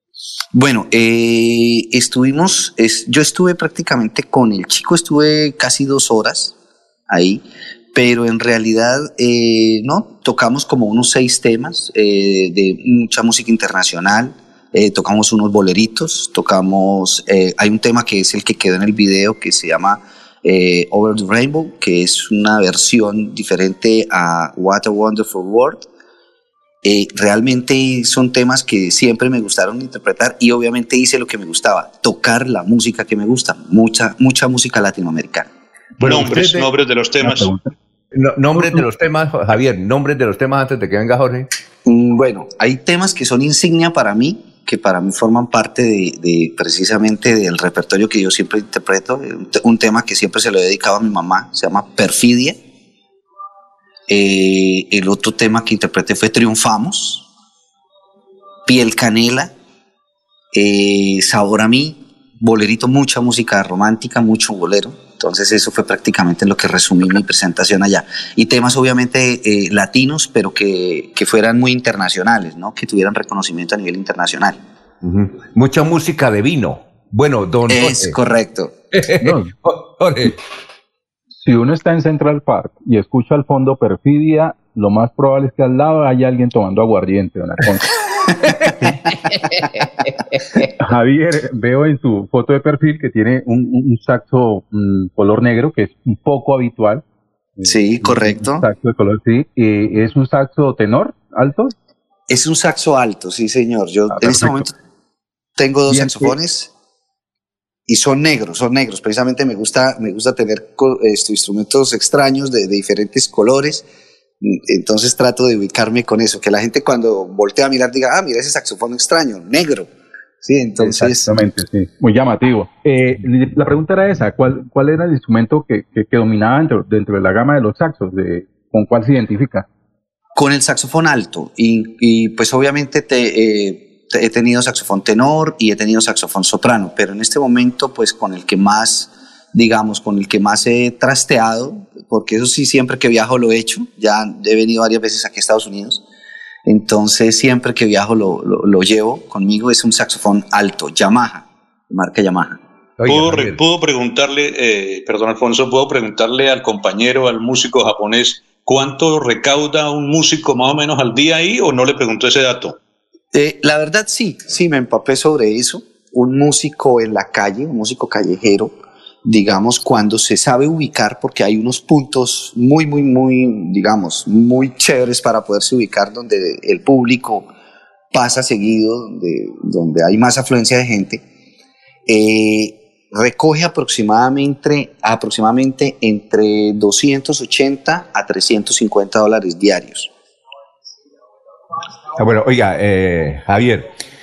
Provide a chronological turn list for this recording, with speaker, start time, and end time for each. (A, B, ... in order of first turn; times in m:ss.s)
0:00.5-0:06.5 A
0:07.1-0:25.8 A
0:26.8-0:35.5 A
0:36.0-0:36.7 B
0:36.0-0:37.5 C
0:37.2-0:37.7 D
0:38.1-0:41.5 B
0:41.8-0:52.6 A
0:54.1-0:57.3 A
0:58.6-0:59.5 A
1:00.5-1:14.6 A
1:15.0-1:18.2 B
1:17.7-1:18.7 A
1:18.9-1:20.4 B
1:19.2-1:19.5 D
1:21.4-1:27.9 D
1:28.2-1:29.1 A
1:30.8-1:37.0 D
1:37.6-1:41.7 D
1:37.6-1:38.6 A
1:42.3-1:44.7 A
1:44.1-1:44.6 D
1:45.6-1:46.7 A
1:45.9-1:46.3 D
1:47.9-1:53.8 A
1:54.4-1:59.9 A
2:00.4-2:01.3 A
2:00.8-2:09.6 D
2:10.4-2:26.0 A
2:26.6-2:32.6 A
2:33.0-2:33.6 B
2:33.0-2:42.8 C
2:43.3-2:48.7 A
2:49.2-2:57.5 A
2:58.1-3:01.2 A
3:02.1-3:10.1 A
3:12.2-3:13.9 B